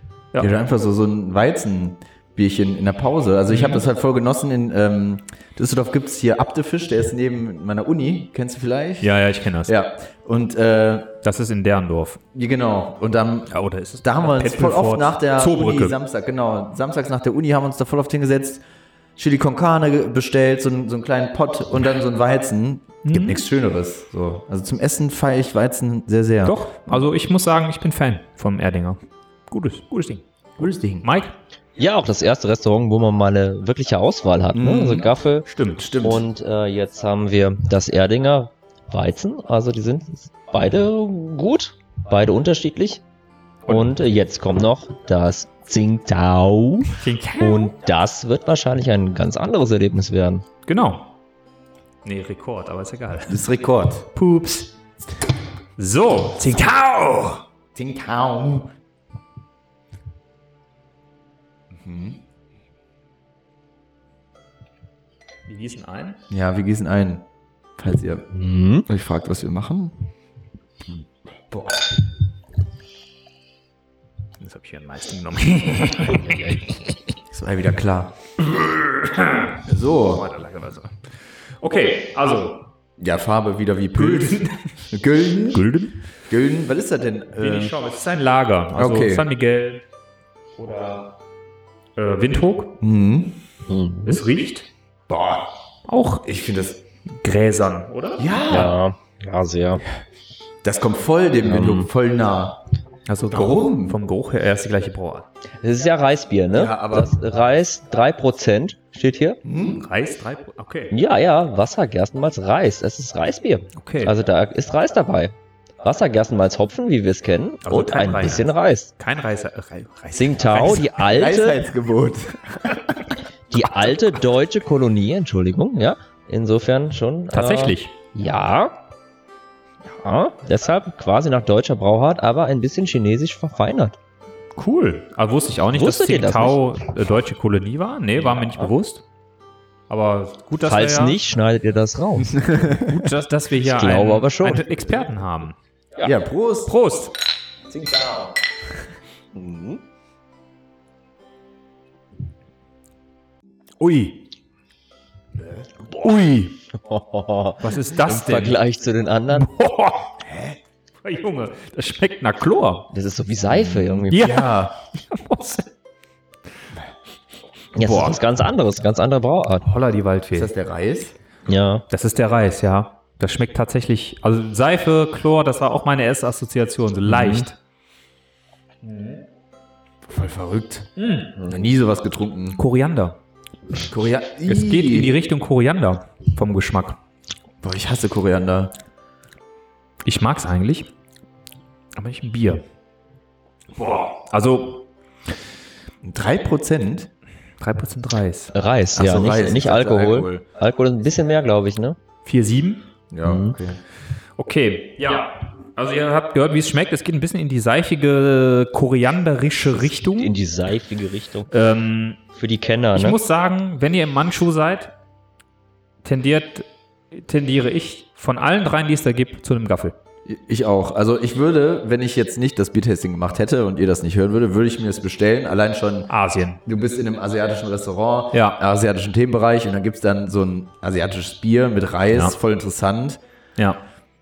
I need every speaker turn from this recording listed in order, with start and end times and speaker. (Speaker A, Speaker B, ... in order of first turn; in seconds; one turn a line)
Speaker A: 0.4-11.2
Speaker B: 3.5-3.8
Speaker B: 9.0-9.7
Speaker B: 11.2-12.2
Speaker A: 12.3-18.6
Speaker B: 13.5-16.0
Speaker A: 19.2-26.6
Speaker B: 23.0-23.4
Speaker B: 26.4-30.2
Speaker A: 30.6-31.1
Speaker B: 31.0-31.3
Speaker C: 31.8-35.5
Speaker A: 34.5-35.1
Speaker B: 35.5-36.0
Speaker A: 35.8-36.3
Speaker C: 36.0-43.0
Speaker C: 43.7-50.4
Speaker B: 47.0-47.7
Speaker B: 50.6-51.1
Speaker B: 52.0-53.4
Speaker A: 53.3-54.1
Speaker B: 54.1-54.7
Speaker B: 55.8-57.4
Speaker A: 57.7-58.7
Speaker A: 61.7-62.2
Speaker B: 65.5-66.2
Speaker A: 66.3-67.2
Speaker A: 67.8-68.3
Speaker C: 68.3-68.9
Speaker A: 68.9-69.9
Speaker A: 71.5-71.9
Speaker B: 74.4-77.0
Speaker C: 76.2-76.6
Speaker A: 77.3-78.1
Speaker B: 78.5-81.0
Speaker A: 79.7-80.3
Speaker B: 81.6-82.7
Speaker A: 83.0-85.7
Speaker B: 84.0-84.7
Speaker B: 85.5-86.0
Speaker A: 86.3-87.8
Speaker B: 87.4-89.8
Speaker A: 88.7-89.3
Speaker B: 90.6-91.1
Speaker B: 92.0-92.8
Speaker A: 92.8-93.4
Speaker C: 93.7-94.2
Speaker B: 94.0-94.7
Speaker A: 95.1-95.5
Speaker B: 95.9-96.2
Speaker A: 96.2-96.8
Speaker B: 97.1-98.2
Speaker A: 98.2-98.8
Speaker C: 98.5-99.8
Speaker A: 100.6-102.6
Speaker C: 101.4-101.9
Speaker B: 103.1-105.3
Speaker A: 103.3-104.0
Speaker C: 105.6-109.4
Speaker A: 106.5-107.2
Speaker A: 109.4-109.8
Speaker B: 109.7-110.9
Speaker C: 110.9-118.9
Speaker B: 113.8-114.2
Speaker B: 117.6-121.0
Speaker C: 120.1-121.6
Speaker A: 121.0-123.1
Speaker C: 123.5-128.8
Speaker B: 127.3-127.9
Speaker C: 130.0-133.9
Speaker B: 134.6-139.0
Speaker C: 135.7-136.7
Speaker C: 138.2-138.7
Speaker B: 139.9-141.2
Speaker C: 140.6-142.4
Speaker A: 142.3-143.1
Speaker B: 142.7-145.5
Speaker C: 143.6-144.7
Speaker A: 146.0-146.7
Speaker B: 146.7-147.1
Speaker C: 149.3-149.8
Speaker B: 153.8-154.2
Speaker B: 155.9-156.6
Speaker C: 156.7-159.5
Speaker B: 157.6-158.6
Speaker B: 159.3-160.2
Speaker A: 160.2-160.6
Speaker B: 161.0-162.9
Speaker C: 162.9-164.4
Speaker A: 163.5-164.7
Speaker B: 164.1-165.7
Speaker C: 167.7-169.7
Speaker B: 167.8-168.2
Speaker B: 169.6-170.5
Speaker A: 170.3-171.2
Speaker C: 171.4-171.8
Speaker B: 171.9-177.6
Speaker C: 177.1-177.4
Speaker B: 178.8-179.2
Speaker A: 180.1-180.9
Speaker B: 181.0-181.3
Speaker A: 181.4-182.6
Speaker B: 182.6-183.2
Speaker A: 183.8-185.1
Speaker B: 184.4-187.0
Speaker A: 187.6-188.7
Speaker B: 190.0-190.9
Speaker B: 191.9-192.6
Speaker B: 193.7-194.9
Speaker A: 196.0-197.1
Speaker B: 197.6-198.5
Speaker C: 198.5-202.0
Speaker A: 198.9-200.4
Speaker B: 202.2-202.8
Speaker A: 203.1-203.8
Speaker C: 203.2-203.6
Speaker B: 204.4-210.3
Speaker C: 209.9-211.5
Speaker B: 211.5-212.2
Speaker C: 212.3-213.2
Speaker B: 212.9-214.9
Speaker B: 216.0-219.9
Speaker A: 220.2-226.1
Speaker B: 226.1-226.6
Speaker A: 226.6-233.2
Speaker B: 228.3-228.6